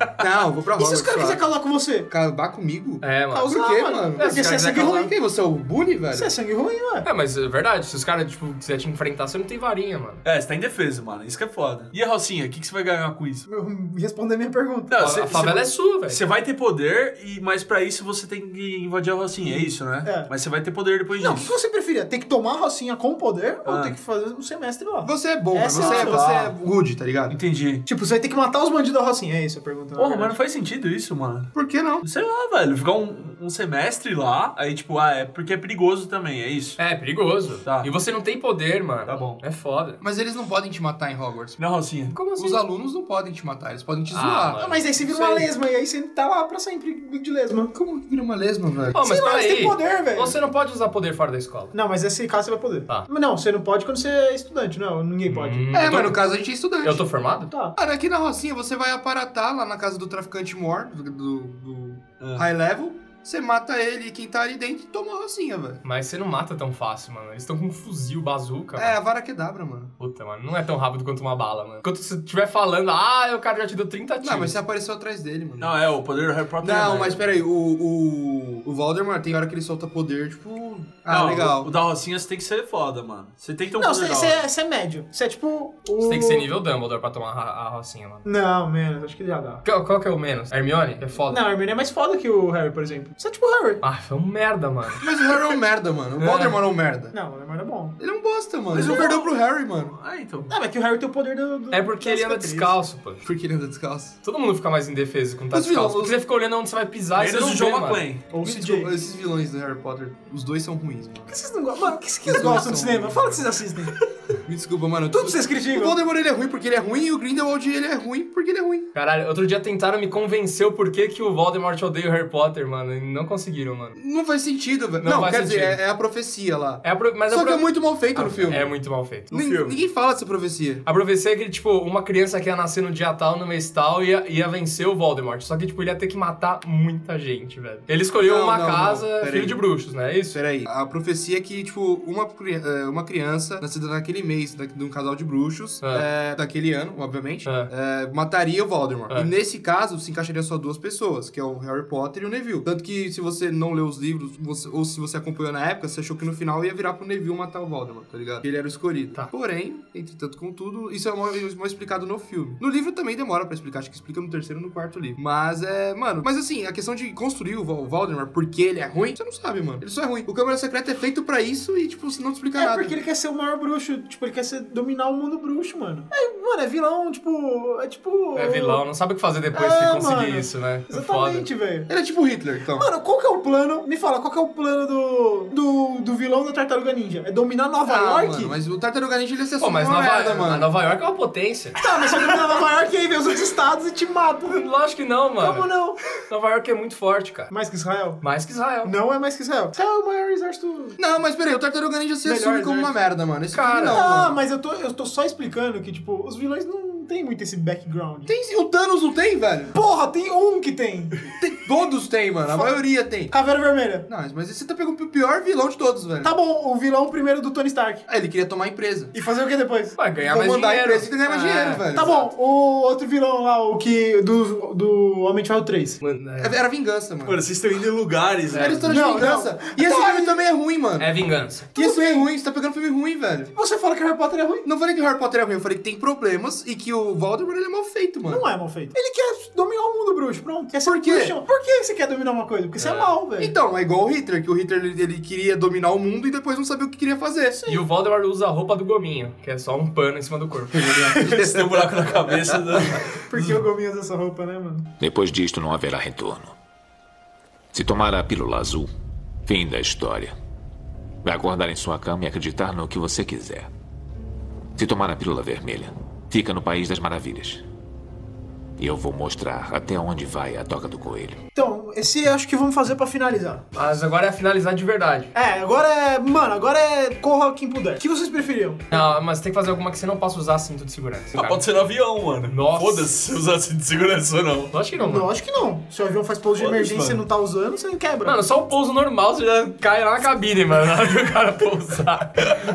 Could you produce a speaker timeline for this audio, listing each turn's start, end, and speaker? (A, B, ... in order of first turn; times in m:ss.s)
0:00.2-0:01.4 A
0:00.8-0:02.1 B
0:02.1-0:06.3 A
0:03.0-0:03.6 C
0:03.3-0:05.1 B
0:04.2-0:05.1 C
0:06.1-0:07.1 B
0:07.0-0:10.2 C
0:10.2-0:13.4 D
0:13.4-0:15.0 B
0:14.9-0:21.5 D
0:15.0-0:16.2 C
0:19.5-0:20.3 B
0:21.2-0:26.5 B
0:23.6-0:24.0 D
0:25.0-0:27.4 A
0:25.7-0:26.2 D
0:27.3-0:27.8 D
0:27.8-0:30.3 B
0:30.0-0:31.5 D
0:31.5-0:32.0 A
0:32.0-0:36.8 D
0:36.8-0:40.0 C
0:37.6-0:37.9 D
0:39.1-0:39.4 D
0:40.0-0:41.6 A
0:41.6-0:42.1 D
0:42.1-0:42.6 C
0:42.3-0:44.6 A
0:44.1-0:45.5 C
0:44.6-0:47.7 B
0:47.7-0:49.0 A
0:48.9-0:51.7 C
0:49.0-0:50.4 B
0:51.7-0:55.7 B
0:55.2-0:56.3 C
0:55.7-0:57.0 A
0:56.8-0:57.5 C
0:57.8-1:05.8 A
1:02.2-1:02.4 D
1:05.8-1:09.0 C
1:08.8-1:09.9 A
1:10.0-1:14.6 C
1:14.2-1:15.8 A
1:15.6-1:17.4 D
1:16.6-1:21.7 A
1:21.1-1:24.4 D
1:23.8-1:26.5 B
1:26.0-1:28.2 C
1:28.2-1:29.6 B
1:29.6-1:31.4 C
1:31.3-1:33.8 B
1:33.8-1:35.0 C
1:35.0-1:37.1 A
1:36.2-1:36.6 C
1:37.1-1:38.0 B
1:38.0-1:40.0 A
1:38.7-1:40.5 D
1:38.8-1:39.1 B
1:40.5-1:42.7 B
1:41.7-1:43.2 C
1:43.2-1:44.2 A
1:44.2-1:48.1 C
1:45.5-1:46.2 A
1:47.2-1:48.2 D
1:48.3-1:48.9 B
1:48.4-1:51.3 A
1:51.3-1:54.0 B
1:52.2-1:53.5 A
1:54.4-1:58.9 A
1:55.1-1:56.0 B
1:58.9-2:04.0 C
2:03.9-2:08.7 A
2:05.0-2:05.8 C
2:06.8-2:09.7 C
2:09.3-2:10.8 A
2:10.8-2:20.4 C
2:18.2-2:19.6 A
2:20.3-2:53.0 A
2:52.6-2:58.8 B
2:58.4-3:01.5 C
2:59.5-3:01.9 B
3:01.9-3:02.9 A
3:02.8-3:08.5 B
3:07.8-3:10.7 A
3:09.6-3:11.8 C
3:11.8-3:14.7 B
3:14.4-3:15.7 C
3:15.4-3:16.0 B
3:16.3-3:17.5 C
3:17.5-3:18.2 B
3:18.2-3:18.9 C
3:18.8-3:21.0 B
3:21.0-3:24.4 A
3:22.2-3:23.0 B
3:23.5-3:24.1 C
3:23.8-3:28.3 B
3:28.2-3:29.7 A
3:29.7-3:31.2 B
3:31.3-3:33.3 A
3:33.3-3:34.0 B
3:34.1-3:36.3 A
3:36.2-3:38.0 B
3:38.1-3:39.1 A
3:39.1-3:40.0 B
3:40.0-3:42.3 C
3:40.2-3:42.1 A
3:41.9-3:46.0 B
3:46.0-3:46.6 C
3:46.4-3:47.4 A
3:47.2-3:49.2 D
3:48.5-3:48.8 C
3:48.5-3:51.1 A
3:48.9-3:50.4 B
3:51.0-3:51.7 C
3:51.7-3:53.5 A
3:51.8-3:52.3 B
3:53.5-3:54.6 B
3:54.6-3:58.5 A
3:58.3-4:03.5 B
4:00.8-4:01.4 A
4:02.8-4:03.2 C
4:03.4-4:07.6 A
4:07.6-4:07.8 B
4:07.7-4:11.1 C
4:10.7-4:13.0 A
4:11.2-4:13.6 D
4:13.3-4:14.9 B
4:15.0-4:16.5 E
4:17.7-4:18.9 E
4:19.4-4:20.3 E
4:21.2-4:23.7 E
4:24.8-4:27.6 E
4:28.8-4:31.4 E
4:31.5-4:33.6 B
4:33.7-4:35.3 C
4:35.3-4:38.8 B
4:38.9-4:41.7 C
4:41.3-4:44.7 D
4:42.5-4:43.1 C
4:44.7-4:45.3 C
4:45.0-4:48.4 B
4:46.6-4:47.2 D
4:48.2-4:52.5 C